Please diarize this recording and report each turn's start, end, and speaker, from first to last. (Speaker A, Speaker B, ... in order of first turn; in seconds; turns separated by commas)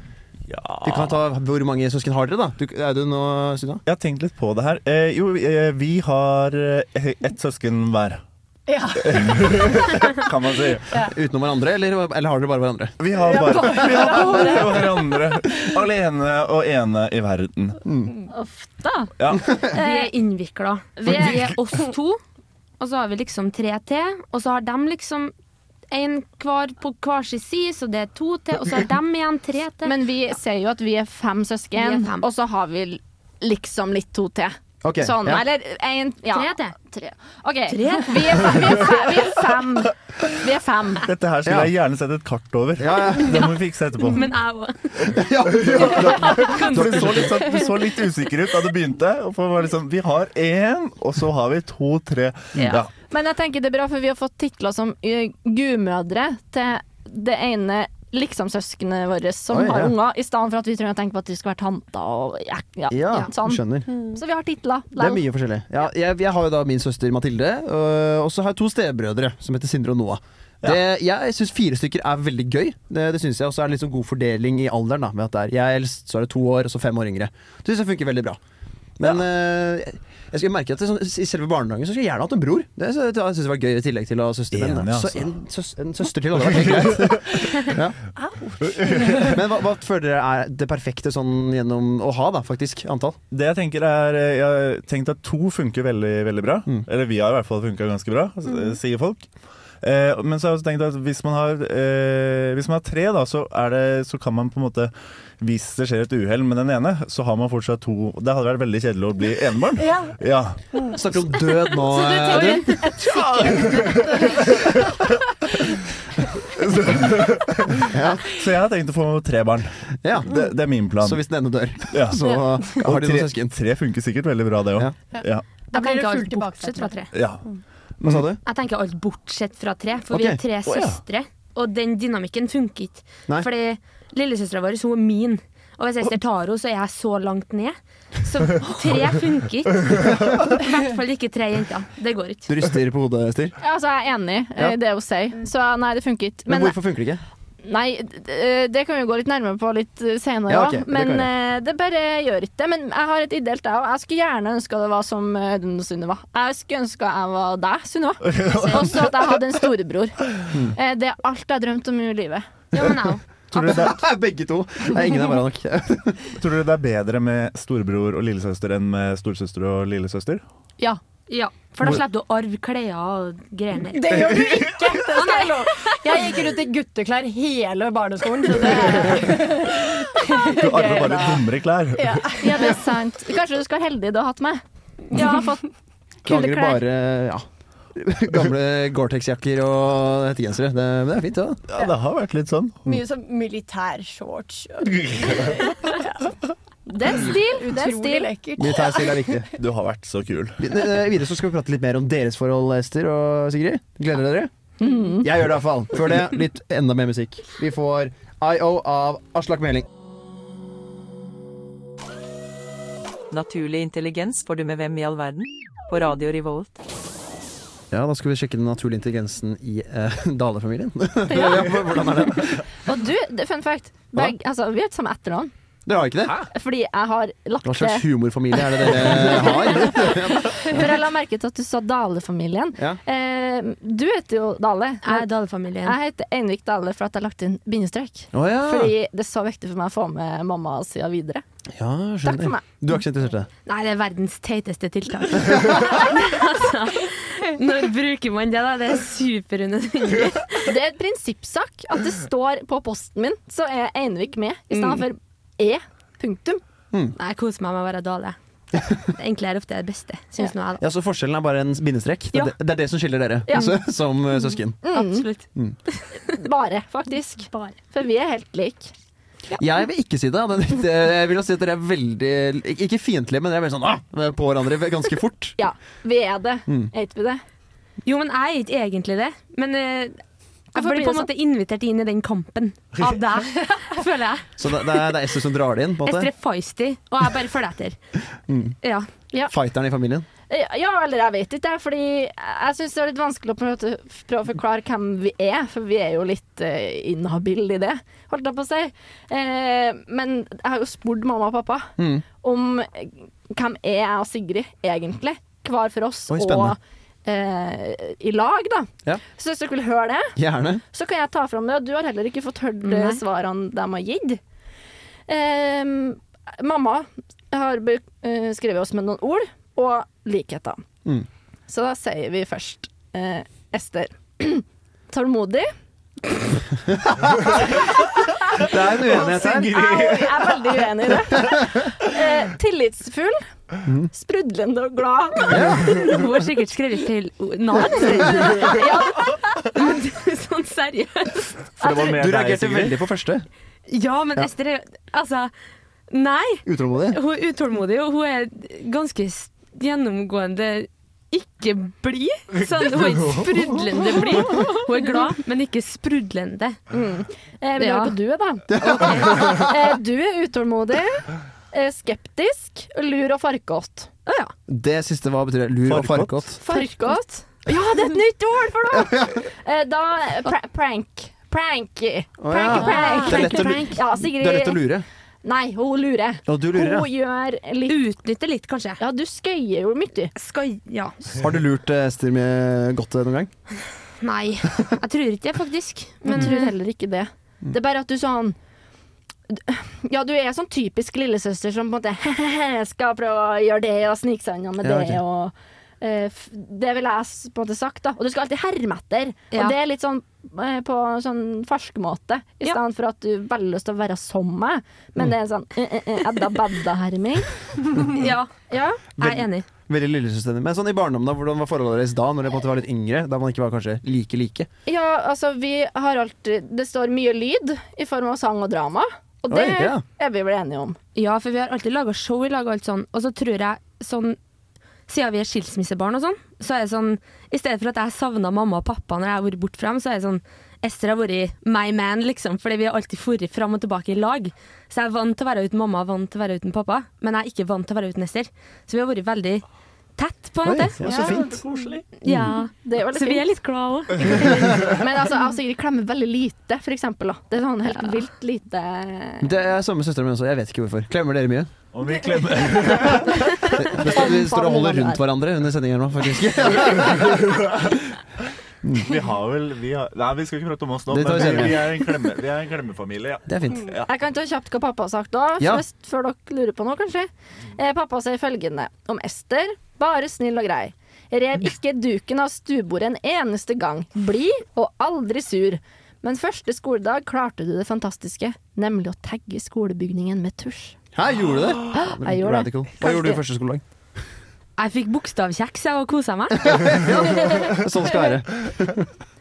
Speaker A: 0.5-1.2, Speaker B: 0.8-3.8, Speaker A: 3.9-8.2, Speaker C: 8.7-9.8, Speaker A: 9.0-10.8, Speaker B: 11.1-13.0, Speaker A: 13.0-17.8, Speaker C: 13.2-15.2, Speaker B: 17.9-18.1, Speaker D: 18.3-19.1, Speaker A: 19.2-19.6, Speaker E: 19.6-22.2, Speaker D: 19.7-20.1, Speaker E: 22.8-25.3, Speaker E: 25.9-29.9, Speaker D: 29.8-41.1, Speaker E: 31.8-32.2, Speaker B: 34.8-35.4, Speaker E: 36.3-36.7, Speaker E: 37.7-38.9, Speaker A: 41.0-44.2, Speaker B: 41.4-41.7, Speaker B: 42.8-43.5, Speaker E: 44.1-47.3, Speaker B: 45.1-47.4, Speaker A: 45.5-52.9, Speaker D: 53.1-65.2, Speaker B: 59.5-59.9, Speaker B: 62.9-63.9, Speaker B: 65.0-78.4, Speaker B: 79.0-88.0, Speaker A: 84.5-85.3, Speaker A: 86.6-87.4, Speaker C: 88.2-89.3, Speaker A: 88.8-89.2, Speaker B: 89.1-93.2, Speaker A: 93.3-99.3, Speaker A: 99.8-110.6, Speaker C: 109.8-110.2, Speaker C: 110.7-111.0, Speaker B: 110.9-112.8, Speaker E: 111.8-113.7, Speaker C: 112.4-114.5, Speaker A: 113.0-115.8, Speaker A: 116.4-119.7, Speaker B: 117.9-118.2, Speaker B: 120.0-120.4, Speaker A: 120.2-121.2, Speaker B: 121.0-123.5, Speaker A: 121.9-125.5, Speaker C: 125.1-126.9, Speaker E: 125.7-127.1, Speaker A: 127.1-127.4, Speaker A: 128.0-128.2, Speaker B: 128.0-128.4, Speaker E: 128.4-142.5, Speaker B: 130.1-130.4, Speaker A: 130.7-131.0, Speaker B: 142.5-143.6, Speaker D: 143.6-146.8, Speaker B: 146.5-147.2, Speaker D: 147.6-162.4, Speaker B: 150.5-151.3, Speaker A: 158.3-159.0, Speaker E: 158.5-158.9, Speaker E: 162.7-164.0, Speaker B: 163.5-166.3, Speaker A: 166.3-170.4, Speaker E: 171.3-174.2, Speaker C: 173.9-182.8, Speaker A: 174.2-174.9, Speaker E: 175.1-176.0, Speaker A: 178.8-179.1, Speaker A: 180.5-182.3, Speaker D: 182.4-185.6, Speaker C: 185.1-185.4, Speaker D: 186.2-186.8, Speaker B: 186.2-191.6, Speaker A: 191.7-192.8, Speaker C: 192.8-196.3, Speaker A: 194.9-195.6, Speaker D: 196.9-198.3, Speaker C: 197.1-199.4, Speaker B: 198.6-199.5, Speaker A: 199.5-200.7, Speaker B: 200.6-204.5, Speaker D: 204.8-205.3, Speaker B: 205.2-209.9, Speaker F: 213.3-216.8, Speaker B: 217.9-222.6, Speaker D: 222.8-225.5, Speaker B: 225.8-226.4, Speaker D: 226.5-235.3, Speaker B: 227.6-230.9, Speaker E: 235.0-235.9, Speaker D: 235.8-241.4, Speaker B: 238.3-238.9, Speaker B: 241.7-243.5, Speaker D: 242.2-242.7, Speaker E: 243.7-250.7, Speaker D: 250.6-256.6, Speaker E: 254.7-255.0, Speaker E: 257.2-258.4, Speaker E: 259.1-260.8, Speaker B: 260.8-264.8, Speaker D: 264.8-265.2, Speaker E: 264.9-266.4, Speaker D: 266.3-268.9, Speaker B: 269.6-275.6, Speaker D: 275.6-277.4, Speaker B: 276.7-276.9, Speaker E: 278.0-280.2, Speaker E: 280.7-284.5, Speaker D: 280.7-281.3, Speaker B: 284.6-286.3, Speaker E: 286.0-288.0, Speaker B: 288.5-288.7, Speaker E: 288.8-289.1, Speaker B: 289.5-290.2, Speaker D: 290.5-310.3, Speaker B: 302.0-302.2, Speaker B: 306.3-306.7, Speaker B: 310.4-310.8, Speaker D: 310.9-314.4, Speaker E: 312.8-313.2, Speaker D: 315.3-320.8, Speaker D: 321.7-325.7, Speaker B: 328.6-329.8, Speaker D: 329.1-333.4, Speaker A: 329.3-330.4, Speaker D: 334.1-335.9, Speaker B: 335.5-336.0, Speaker E: 335.9-342.1, Speaker D: 338.4-339.4, Speaker A: 341.8-343.0, Speaker B: 342.0-343.4, Speaker E: 343.9-345.5, Speaker E: 346.1-356.8, Speaker B: 346.6-347.2, Speaker D: 356.9-364.1, Speaker E: 357.8-358.1, Speaker B: 358.7-359.5, Speaker E: 364.3-364.5, Speaker B: 364.7-366.6, Speaker A: 365.9-366.4, Speaker D: 366.6-374.8, Speaker B: 368.9-369.4, Speaker B: 372.4-375.0, Speaker E: 372.7-373.9, Speaker D: 375.4-378.0, Speaker B: 376.4-377.1, Speaker E: 377.9-379.0, Speaker D: 379.0-380.3, Speaker E: 380.4-381.2, Speaker B: 381.3-383.5, Speaker E: 384.2-386.7, Speaker D: 386.2-388.6, Speaker D: 389.5-407.5, Speaker B: 394.8-395.2, Speaker E: 408.1-409.6, Speaker D: 408.7-409.0, Speaker B: 409.2-414.7, Speaker D: 414.9-421.0, Speaker B: 419.5-420.0, Speaker E: 421.1-424.4, Speaker E: 425.1-439.6, Speaker E: 440.2-441.0, Speaker B: 440.6-441.6, Speaker A: 441.0-442.0, Speaker D: 441.1-441.4, Speaker E: 442.2-444.7, Speaker B: 442.2-442.5, Speaker D: 442.8-443.5, Speaker D: 444.3-449.5, Speaker B: 449.4-451.7, Speaker A: 451.9-453.6, Speaker B: 453.8-457.4, Speaker D: 454.0-455.2, Speaker B: 458.8-459.1, Speaker A: 459.0-464.0, Speaker B: 461.1-461.9, Speaker B: 463.5-463.9, Speaker D: 464.1-481.0, Speaker B: 481.1-483.8, Speaker D: 481.9-483.4, Speaker E: 484.8-486.9, Speaker B: 486.7-489.0